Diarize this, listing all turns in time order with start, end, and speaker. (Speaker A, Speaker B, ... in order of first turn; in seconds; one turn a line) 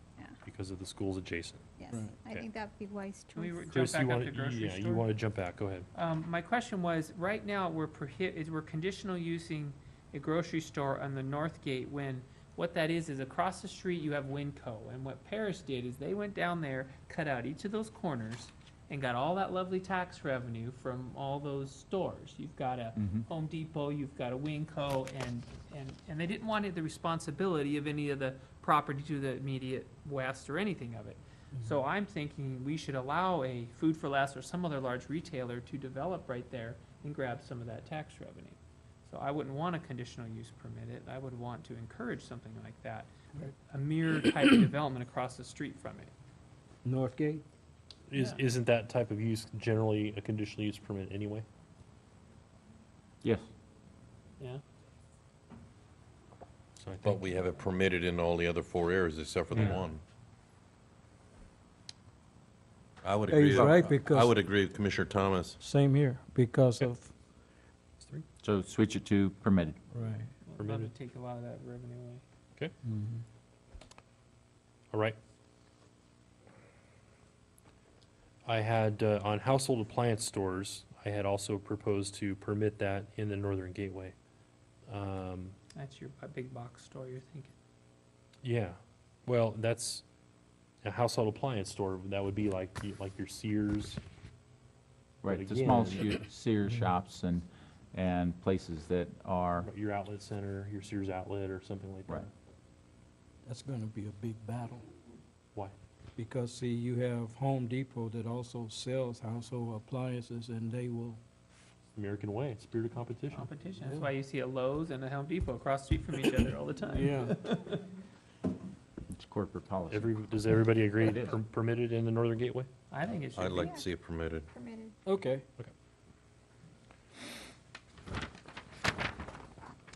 Speaker A: 0.4-1.6
Speaker B: 1.8-3.8
Speaker C: 1.9-2.2
Speaker D: 3.4-5.1
Speaker A: 3.7-5.9
Speaker D: 5.9-46.1
Speaker E: 23.0-23.2
Speaker C: 31.6-31.8
Speaker C: 46.8-47.5
Speaker A: 48.1-51.5
Speaker A: 56.8-57.2
Speaker F: 57.0-60.0
Speaker A: 59.5-59.9
Speaker F: 63.0-65.6
Speaker C: 63.3-64.4
Speaker C: 65.6-67.1
Speaker A: 68.0-68.2
Speaker E: 68.4-69.8
Speaker C: 69.9-70.3
Speaker D: 70.5-72.2
Speaker A: 70.6-70.9
Speaker C: 72.8-73.2
Speaker A: 74.9-75.2
Speaker A: 78.5-84.2
Speaker A: 84.9-85.6
Speaker D: 85.7-87.5
Speaker A: 88.4-90.1
Speaker A: 90.8-94.0
Speaker E: 95.2-99.7
Speaker A: 95.3-96.2
Speaker C: 96.6-96.9
Speaker A: 99.6-102.3
Speaker C: 103.5-104.9
Speaker C: 106.2-111.2
Speaker A: 112.0-113.5
Speaker D: 113.3-117.8
Speaker C: 116.9-117.4
Speaker E: 119.1-120.1
Speaker A: 119.9-122.7
Speaker D: 122.9-123.8
Speaker F: 123.3-124.5
Speaker B: 123.6-123.9
Speaker B: 124.5-125.0
Speaker C: 125.1-125.4